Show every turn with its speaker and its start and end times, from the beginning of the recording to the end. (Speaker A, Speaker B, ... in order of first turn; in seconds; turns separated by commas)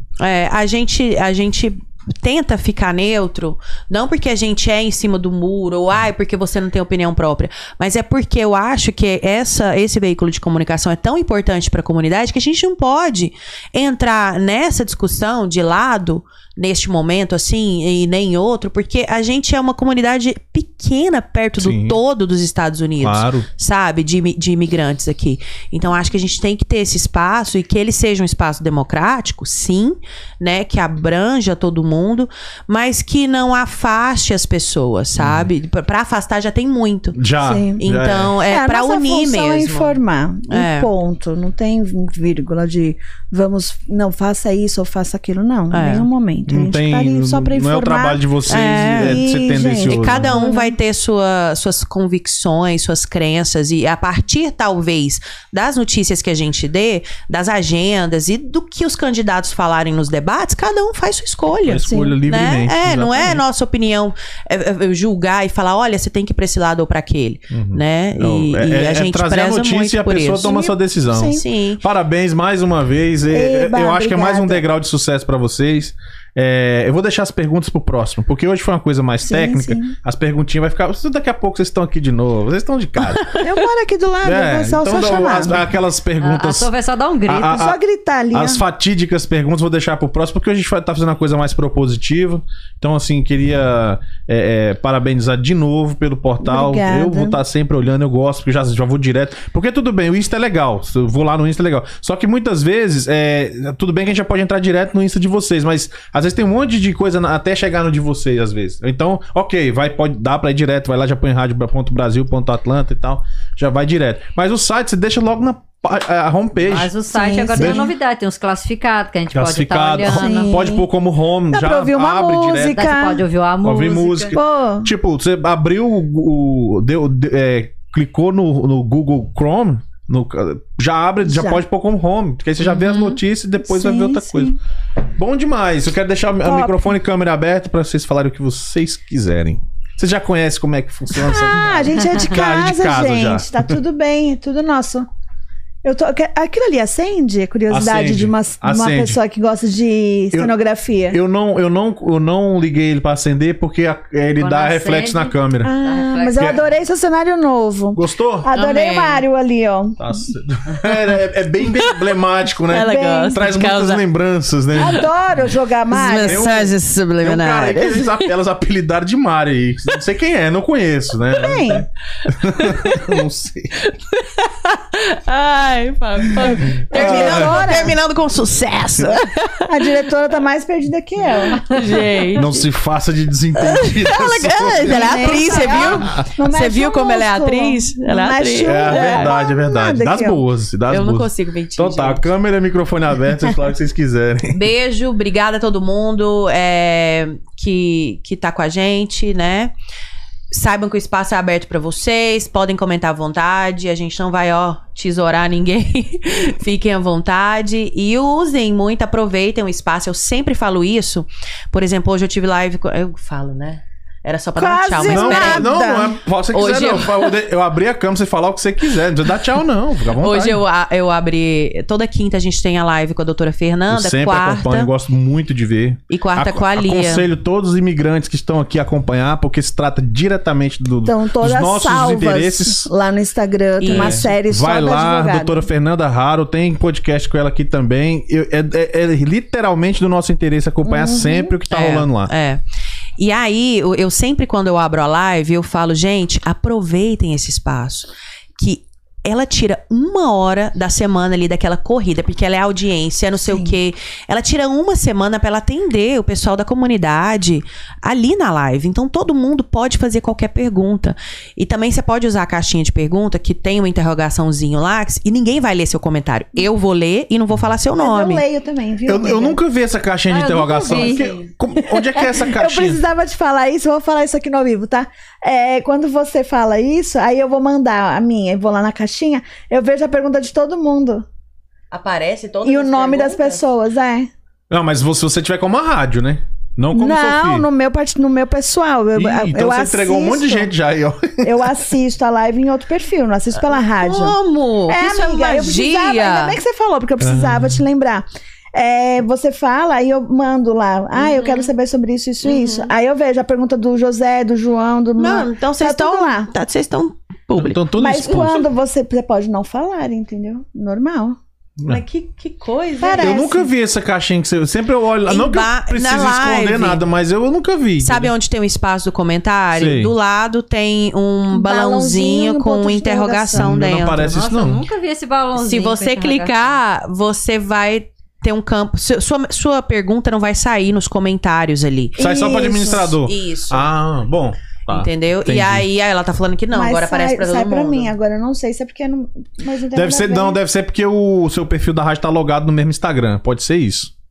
Speaker A: 0.2-37.2, Speaker B: 21.6-22.0, Speaker B: 23.0-23.5, Speaker B: 35.2-35.5, Speaker B: 37.1-38.4, Speaker C: 37.4-37.8, Speaker A: 37.8-40.0, Speaker C: 38.5-48.2, Speaker A: 40.5-40.9, Speaker A: 45.7-46.1, Speaker B: 46.5-50.4, Speaker A: 48.5-49.2, Speaker C: 48.9-50.8, Speaker A: 49.9-70.5, Speaker B: 61.6-63.4, Speaker C: 61.9-62.1, Speaker B: 67.5-83.3, Speaker C: 70.4-71.4, Speaker A: 71.2-71.8, Speaker C: 73.3-74.7, Speaker C: 79.2-80.0, Speaker A: 83.1-83.5, Speaker C: 83.4-85.6, Speaker B: 84.2-86.7, Speaker D: 86.2-87.6, Speaker B: 87.3-87.8, Speaker C: 87.5-88.6, Speaker B: 88.3-116.9, Speaker C: 96.4-97.4, Speaker D: 116.6-120.7, Speaker C: 117.1-117.9, Speaker B: 117.6-117.9, Speaker B: 119.3-122.8, Speaker C: 120.1-120.9, Speaker C: 121.5-123.3, Speaker D: 122.6-124.4, Speaker B: 123.6-134.6, Speaker C: 124.3-124.9, Speaker C: 131.2-131.6, Speaker A: 132.6-133.2, Speaker C: 133.6-134.6, Speaker B: 135.2-143.8, Speaker C: 136.4-136.9, Speaker C: 141.2-145.1, Speaker C: 145.8-151.2, Speaker B: 147.7-149.2, Speaker B: 151.1-155.7, Speaker D: 154.4-156.6, Speaker C: 155.6-160.0, Speaker B: 156.3-156.6, Speaker B: 157.9-158.5, Speaker A: 158.5-159.2, Speaker B: 160.0-165.1, Speaker A: 161.6-162.1, Speaker A: 162.7-164.0, Speaker C: 162.7-163.4, Speaker C: 164.8-166.5, Speaker A: 165.9-168.3, Speaker B: 166.3-173.8, Speaker C: 171.3-171.8, Speaker A: 172.4-173.2, Speaker A: 173.8-180.0, Speaker C: 176.4-178.0, Speaker B: 176.9-177.7, Speaker C: 179.7-181.8, Speaker A: 181.3-182.6, Speaker B: 182.3-186.3, Speaker A: 183.6-189.3, Speaker C: 184.8-190.4, Speaker B: 188.6-194.6, Speaker A: 190.9-192.2, Speaker A: 194.5-199.7, Speaker A: 200.5-215.8, Speaker C: 214.6-216.1, Speaker B: 215.1-220.6, Speaker A: 216.5-217.4, Speaker A: 220.2-224.9, Speaker B: 223.9-232.9, Speaker A: 226.1-227.3, Speaker C: 231.1-235.7, Speaker A: 233.8-234.3, Speaker B: 233.9-242.3, Speaker C: 240.8-241.5, Speaker A: 241.7-242.6, Speaker A: 243.2-268.4, Speaker C: 253.4-253.8, Speaker C: 268.0-269.6, Speaker B: 269.1-273.0, Speaker D: 270.3-271.2, Speaker A: 270.9-271.5, Speaker C: 271.8-281.3, Speaker A: 281.9-283.6, Speaker C: 282.6-284.3, Speaker B: 284.7-287.7, Speaker C: 286.9-290.7, Speaker B: 289.2-291.5, Speaker C: 291.4-294.4, Speaker A: 293.9-296.6, Speaker C: 294.9-306.5, Speaker B: 297.2-297.8, Speaker A: 301.1-301.7, Speaker A: 302.4-302.9, Speaker A: 305.2-307.8, Speaker B: 307.6-308.7, Speaker C: 308.0-311.4, Speaker A: 311.9-313.5, Speaker C: 313.0-313.7, Speaker B: 313.2-318.3, Speaker A: 315.3-317.0, Speaker A: 318.0-324.3, Speaker B: 319.7-320.1, Speaker C: 321.5-323.7, Speaker B: 323.5-324.8, Speaker D: 324.2-326.8, Speaker A: 325.6-333.9, Speaker B: 332.2-335.9, Speaker C: 332.2-333.1, Speaker A: 334.9-338.1, Speaker C: 336.7-340.6, Speaker B: 339.9-344.1